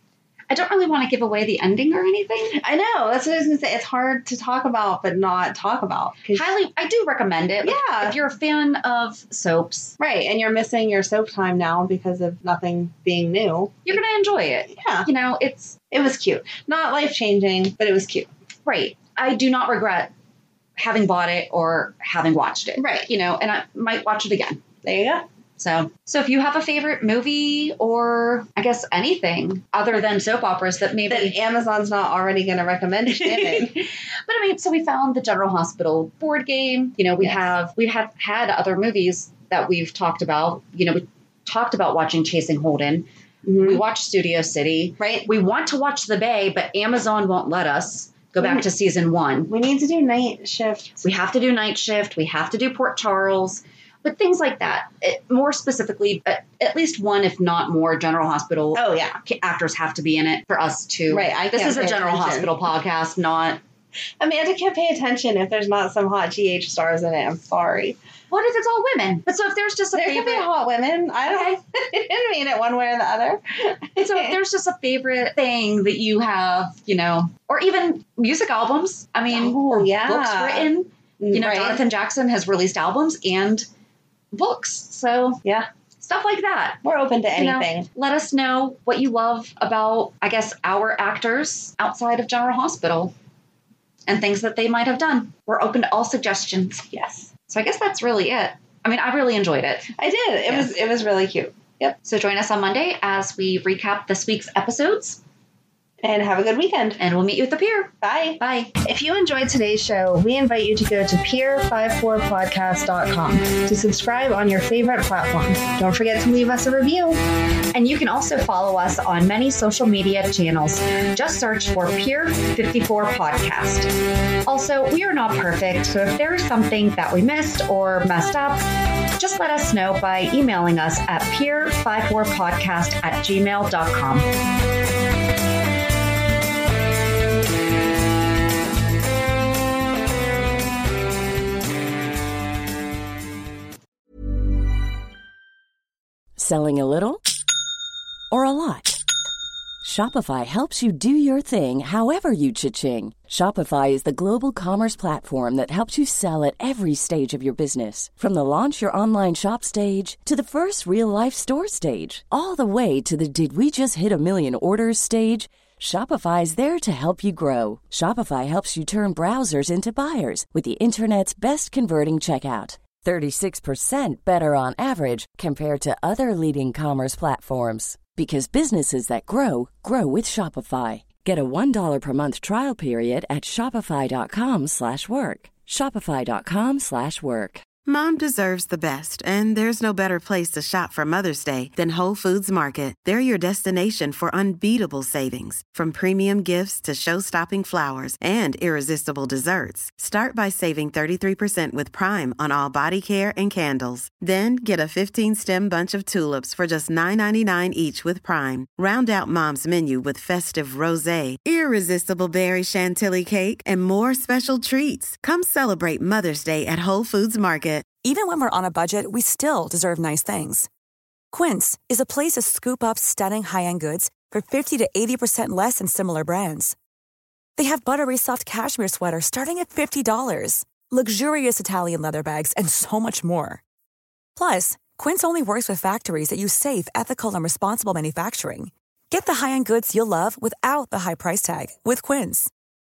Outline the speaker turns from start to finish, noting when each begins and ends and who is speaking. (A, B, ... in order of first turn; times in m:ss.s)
0:00.5-0:02.6 A
0:02.5-0:06.5 B
0:06.3-0:10.0 A
0:07.6-0:08.2 B
0:10.0-0:14.0 B
0:13.9-0:15.8 A
0:14.7-0:15.1 B
0:15.9-0:18.3 B
0:18.7-0:20.1 A
0:20.8-0:24.6 A
0:22.8-0:23.1 B
0:24.8-0:25.3 B
0:25.6-0:31.4 A
0:31.1-0:33.9 B
0:33.2-0:49.5 A
0:37.2-0:37.5 B
0:43.4-0:43.8 B
0:45.0-0:45.3 B
0:48.4-0:48.7 B
0:49.5-0:51.1 B
0:51.0-1:03.6 A
0:58.7-0:59.2 B
1:01.1-1:02.5 B
1:04.2-1:08.0 B
1:08.3-1:10.5 A
1:09.9-1:14.4 B
1:14.0-1:23.7 A
1:19.3-1:21.8 B
1:24.3-1:25.4 A
1:25.4-1:25.7 B
1:26.0-1:26.8 A
1:26.8-1:27.9 B
1:27.4-1:33.1 A
1:34.1-1:36.9 A
1:36.9-1:37.3 B
1:37.5-1:39.9 A
1:40.0-1:42.0 B
1:42.0-1:45.2 A
1:46.0-1:47.0 B
1:47.0-1:48.7 A
1:48.0-1:57.2 B
1:57.7-2:03.9 A
2:04.5-2:14.3 A
2:26.4-2:27.2 C
2:28.3-2:29.0 C
2:29.8-3:07.6 C
3:07.8-3:37.9 D
3:38.0-3:40.7 E
3:41.3-3:46.8 E
3:47.6-3:53.6 E
3:54.4-4:02.5 E